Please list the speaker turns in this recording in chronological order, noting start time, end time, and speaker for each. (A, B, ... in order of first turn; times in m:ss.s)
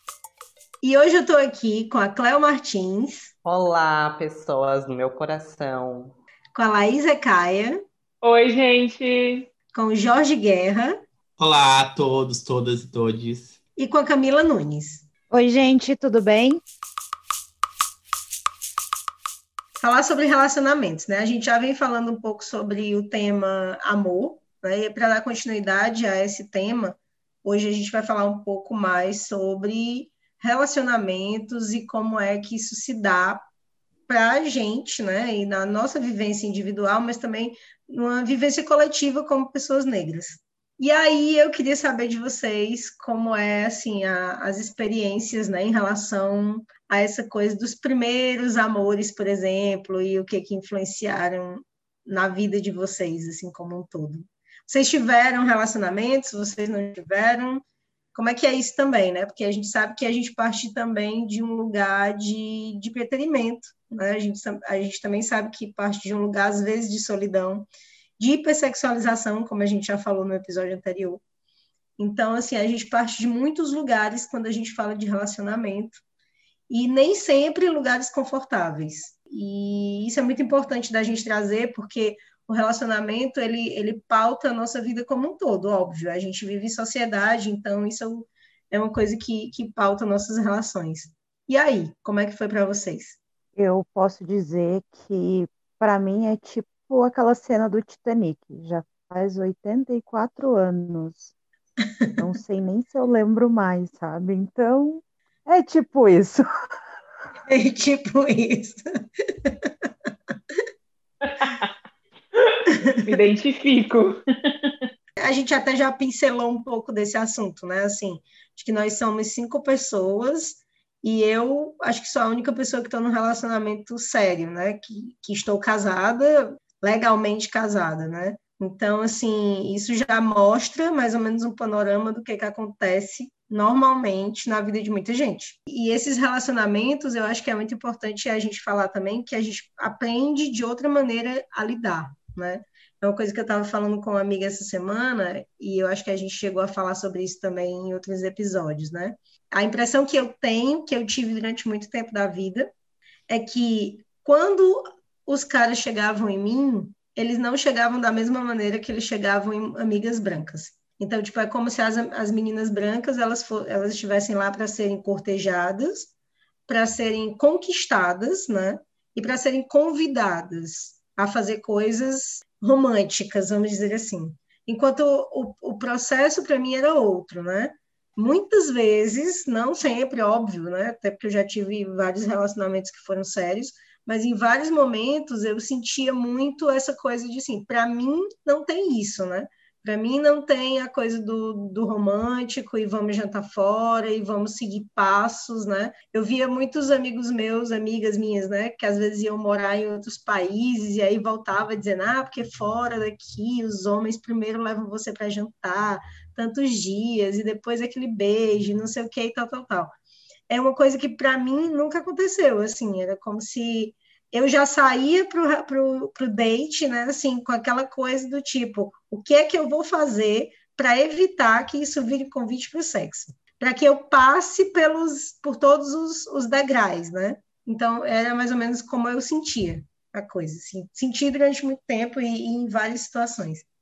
0:00.8-0:03.3 A
0:03.4-0:06.2 B
0:06.5-0:07.8 A
0:08.2-0:09.5 C
0:09.7-0:10.9 A
0:11.4-0:13.6 D
0:13.8-0:15.0 A
0:15.3-0:16.6 E
0:19.8-0:33.4 A
0:34.1-0:57.6 A
0:58.1-1:11.2 A
1:12.0-1:16.0 A
1:16.7-1:33.2 A
1:33.6-1:41.3 E
1:42.2-1:46.4 E
1:47.5-1:49.7 A
1:51.2-1:51.7 C
1:52.3-1:54.8 C
1:52.9-1:53.1 A
1:55.2-2:32.7 A
2:33.3-2:46.1 A
2:46.7-3:29.9 A
3:30.5-3:53.6 A